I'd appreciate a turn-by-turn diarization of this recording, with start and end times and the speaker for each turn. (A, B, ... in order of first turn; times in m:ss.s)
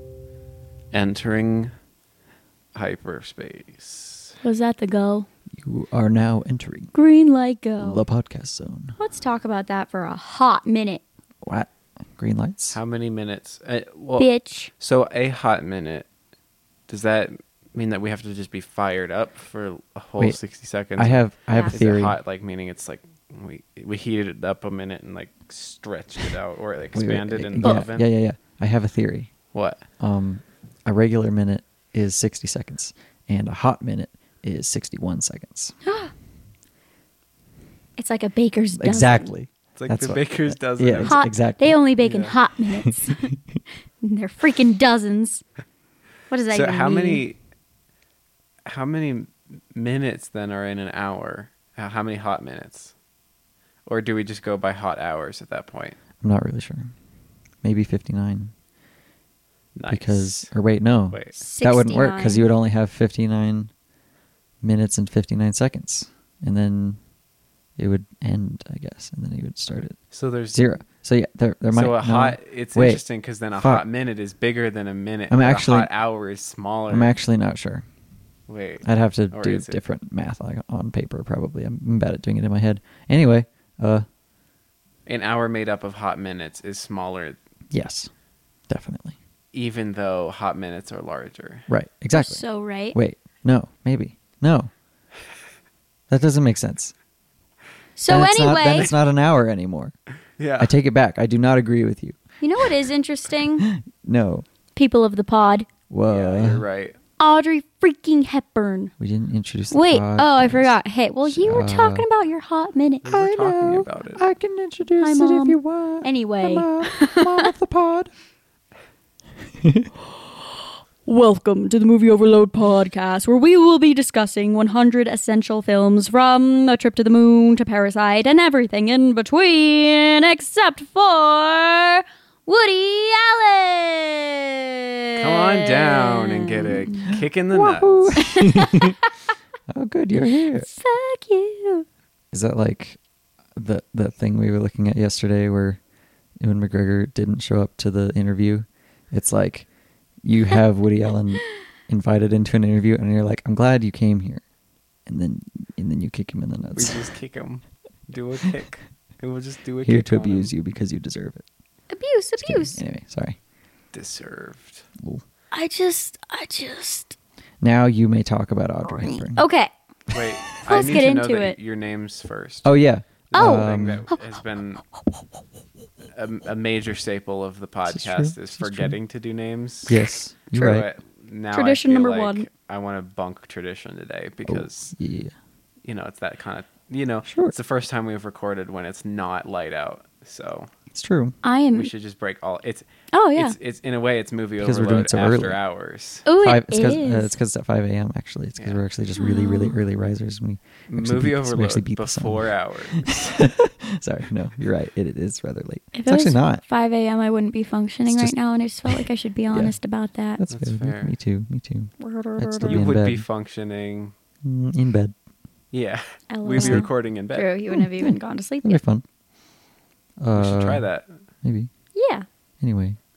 0:00.9-0:01.7 A
0:02.8-0:04.4 A
0:04.4-0:05.3 B
0:05.6-0:06.9 C
0:07.0-0:08.0 B
0:07.8-0:09.0 C
0:09.0-0:11.0 B
0:11.4-0:12.8 C
0:12.7-0:14.3 A
0:14.2-0:14.7 B
0:14.8-0:16.1 A
0:16.9-0:28.1 A
0:21.0-0:22.2 C
0:21.5-0:21.8 B
0:26.9-0:29.3 C
0:27.6-0:27.9 B
0:29.5-0:29.8 A
0:30.0-0:35.8 C
0:35.8-0:36.1 B
0:38.0-0:39.3 B
0:38.8-0:41.8 C
0:39.8-0:41.2 A
0:41.1-0:43.3 B
0:42.0-0:42.4 A
0:42.7-0:43.6 C
0:44.0-0:45.4 B
0:46.3-0:47.2 B
0:46.5-0:47.4 A
0:48.7-0:52.9 A
0:53.9-0:56.0 A
0:56.2-0:56.9 C
0:57.6-0:58.5 C
0:59.8-1:00.5 A
0:59.9-1:03.7 C
1:01.1-1:01.4 A
1:01.4-1:02.5 B
1:04.6-1:07.0 C
1:07.8-1:10.0 C
1:10.1-1:10.7 A
1:10.5-1:13.0 C
1:11.7-1:17.1 A
1:13.5-1:13.9 C
1:15.3-1:15.9 C
1:16.9-1:17.8 C
1:18.5-1:19.8 A
1:18.8-1:24.1 C
1:25.1-1:27.4 A
1:27.7-1:28.1 C
1:28.7-1:29.2 C
1:29.5-1:31.7 A
1:31.7-1:34.7 C
1:32.1-1:33.0 B
1:36.1-1:36.9 C
1:38.0-1:38.9 B
1:38.1-1:40.0 C
1:40.4-1:40.7 A
1:40.6-1:42.2 C
1:42.4-1:43.7 B
1:43.6-1:44.5 C
1:44.8-1:45.7 B
1:45.9-1:46.6 C
1:46.1-1:47.0 A
1:47.2-1:48.9 B
1:49.0-1:50.8 C
1:49.7-1:53.1 B
1:51.3-1:52.1 C
1:53.0-1:54.2 A
1:53.1-1:58.1 C
1:55.0-1:57.5 B
1:59.6-1:59.9 C
2:01.0-2:17.2 B
2:15.2-2:18.2 A
2:17.1-2:19.0 C
2:18.2-2:19.3 B
2:19.7-2:20.7 C
2:20.5-2:21.9 B
2:22.3-2:23.0 C
2:23.6-2:25.8 C
2:26.4-2:29.7 C
2:30.2-2:34.4 C
2:35.1-2:37.1 C
2:36.8-2:40.5 A
2:39.8-2:41.5 C
2:41.9-2:42.8 B
2:42.4-2:43.4 C
2:43.9-2:44.9 A
2:45.0-2:45.2 C
2:45.5-2:47.2 B
2:47.6-2:49.4 C
2:48.9-2:49.7 B
2:50.1-2:52.7 A
2:50.6-2:51.6 B
2:52.6-2:54.1 C
2:53.3-2:54.8 A
2:53.3-2:54.2 B
2:56.2-3:04.9 A
2:57.9-2:59.0 C
2:59.9-3:00.9 C
3:01.5-3:02.5 B
3:04.5-3:05.3 C
3:05.8-3:10.7 A
3:07.3-3:07.6 C
3:10.9-3:11.4 C
3:11.4-3:11.9 B
3:11.7-3:16.3 A
3:13.1-3:13.6 B
3:14.6-3:15.6 C
3:16.3-3:17.4 B
3:16.4-3:26.6 C
3:19.2-3:19.8 B
3:20.9-3:23.4 A
3:25.9-3:30.4 B
3:28.1-3:29.8 C
3:30.4-3:33.2 C
3:30.5-3:31.1 A
3:32.0-3:32.8 B
3:32.7-3:34.1 A
3:34.4-3:35.2 C
3:35.7-3:37.5 A
3:36.3-3:38.8 B
3:36.6-3:36.9 C
3:37.7-3:39.0 C
3:40.2-3:40.9 C
3:40.3-3:41.1 A
3:41.4-3:41.7 C
3:42.0-3:42.3 B
3:42.6-3:43.0 C